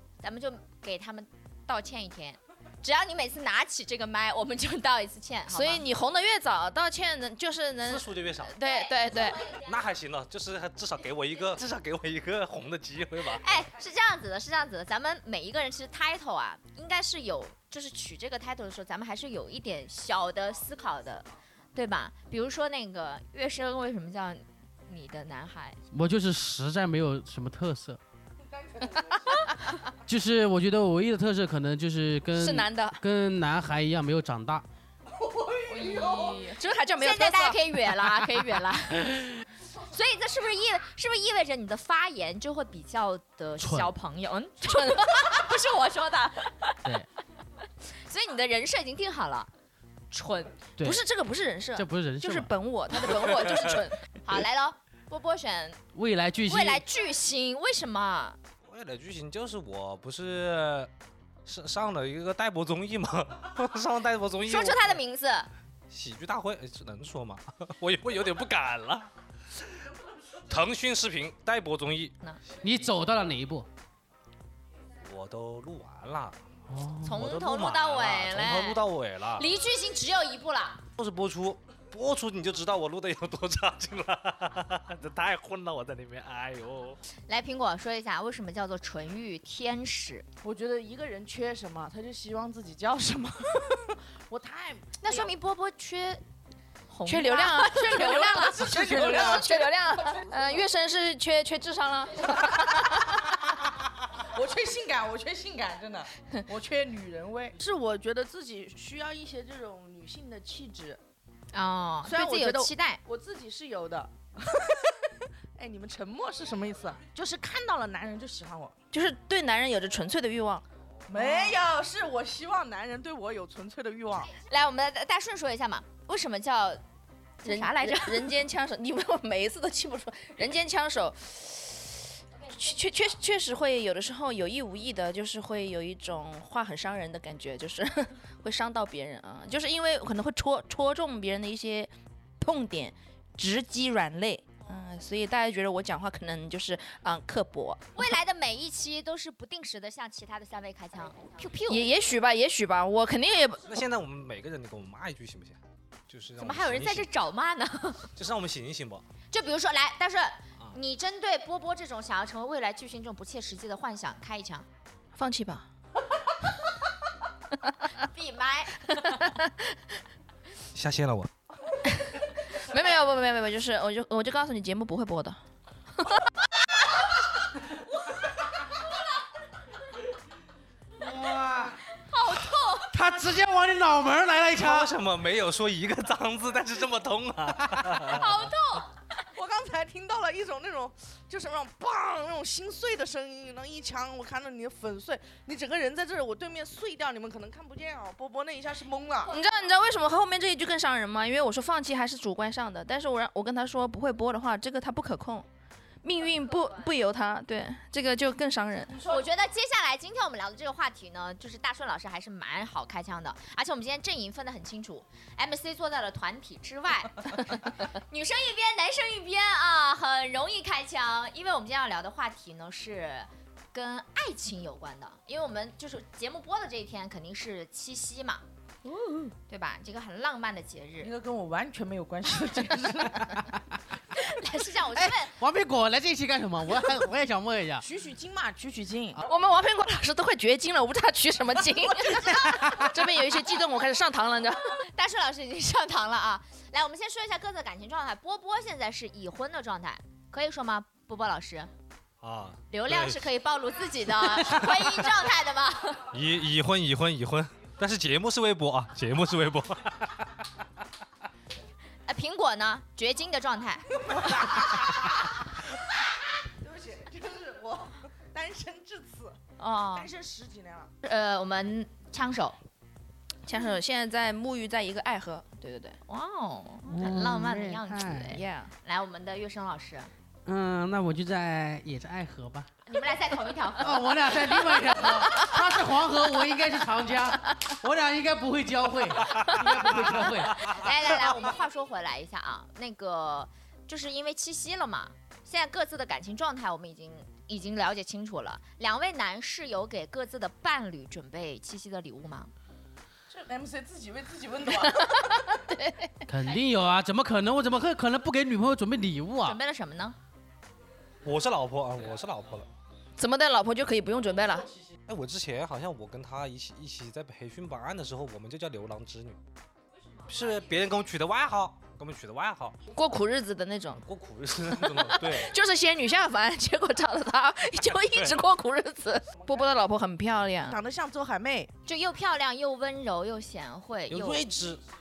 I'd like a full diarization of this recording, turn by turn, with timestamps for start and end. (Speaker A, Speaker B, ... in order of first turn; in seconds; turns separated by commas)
Speaker A: 0.2-5.8, Speaker B: 5.5-9.4, Speaker C: 7.8-8.5, Speaker A: 8.6-9.3, Speaker C: 9.3-13.6, Speaker A: 13.3-25.8, Speaker D: 25.9-28.0, Speaker E: 28.5-29.2, Speaker D: 30.1-34.6, Speaker B: 32.4-33.0, Speaker E: 35.1-36.4, Speaker A: 35.7-46.9, Speaker B: 35.8-37.6, Speaker D: 43.6-43.9, Speaker B: 44.7-45.1, Speaker A: 48.0-49.5, Speaker A: 50.1-50.6, Speaker B: 50.8-54.0, Speaker D: 51.7-52.5, Speaker A: 54.2-55.8, Speaker D: 55.9-56.8, Speaker A: 56.5-58.4, Speaker C: 58.6-60.9, Speaker C: 61.5-65.0, Speaker A: 64.4-65.5, Speaker C: 65.9-69.8, Speaker C: 70.5-72.1, Speaker D: 72.6-73.7, Speaker C: 75.0-76.4, Speaker D: 76.7-77.1, Speaker A: 77.0-78.8, Speaker C: 77.1-79.5, Speaker A: 79.3-80.8, Speaker C: 81.0-87.0, Speaker A: 87.3-90.2, Speaker E: 90.4-95.3, Speaker A: 95.0-96.2, Speaker A: 96.9-100.1, Speaker B: 97.0-98.0, Speaker E: 97.7-100.6, Speaker B: 98.8-103.2, Speaker E: 104.1-111.0, Speaker A: 111.5-113.0, Speaker E: 112.0-118.7, Speaker B: 118.9-120.6, Speaker E: 121.1-124.3, Speaker A: 121.2-121.5, Speaker A: 124.3-126.8, Speaker A: 127.4-128.3, Speaker B: 127.4-147.8, Speaker A: 147.9-151.9, Speaker B: 151.7-153.6, Speaker C: 153.7-157.1, Speaker A: 156.4-158.1, Speaker C: 158.2-159.0, Speaker A: 159.3-164.7, Speaker B: 165.1-165.7, Speaker A: 168.0-169.0, Speaker B: 168.9-169.8, Speaker C: 170.7-171.3, Speaker B: 172.5-175.4, Speaker B: 176.0-176.2, Speaker D: 181.0-181.8, Speaker A: 182.1-182.9, Speaker D: 182.9-184.9, Speaker C: 184.6-188.4, Speaker A: 188.1-188.9, Speaker E: 189.3-199.3, Speaker B: 199.3-205.4, Speaker B: 206.0-209.0, Speaker A: 206.5-206.9, Speaker A: 209.0-228.4, Speaker E: 228.9-229.3, Speaker A: 229.5-231.1, Speaker E: 231.0-233.4, Speaker D: 233.2-233.8, Speaker A: 234.1-235.3, Speaker D: 235.0-237.8, Speaker E: 237.8-239.2, Speaker B: 239.2-244.8, Speaker E: 242.1-242.7, Speaker A: 244.9-251.7, Speaker C: 252.2-253.3, Speaker A: 252.7-256.1, Speaker C: 256.1-260.4, Speaker A: 262.1-263.9, Speaker E: 264.1-265.0, Speaker E: 266.6-269.4, Speaker A: 269.6-270.1, Speaker E: 269.9-270.9, Speaker A: 271.0-272.6, Speaker B: 273.4-276.0, Speaker A: 276.1-280.1, Speaker D: 276.9-278.4, Speaker B: 278.3-278.7, Speaker D: 280.4-282.7, Speaker A: 282.9-285.0, Speaker D: 283.8-290.8, Speaker A: 289.9-302.5, Speaker E: 303.3-305.4, Speaker B: 305.6-306.1, Speaker D: 306.3-309.6, Speaker A: 309.4-310.2, Speaker C: 311.2-312.7, Speaker B: 313.2-314.7, Speaker C: 315.1-319.4, Speaker C: 320.3-322.8, Speaker B: 322.9-324.0, Speaker C: 324.0-325.5, Speaker B: 324.9-330.8, Speaker C: 328.1-328.4, Speaker E: 330.6-331.7, Speaker A: 331.8-334.5, Speaker C: 334.1-334.8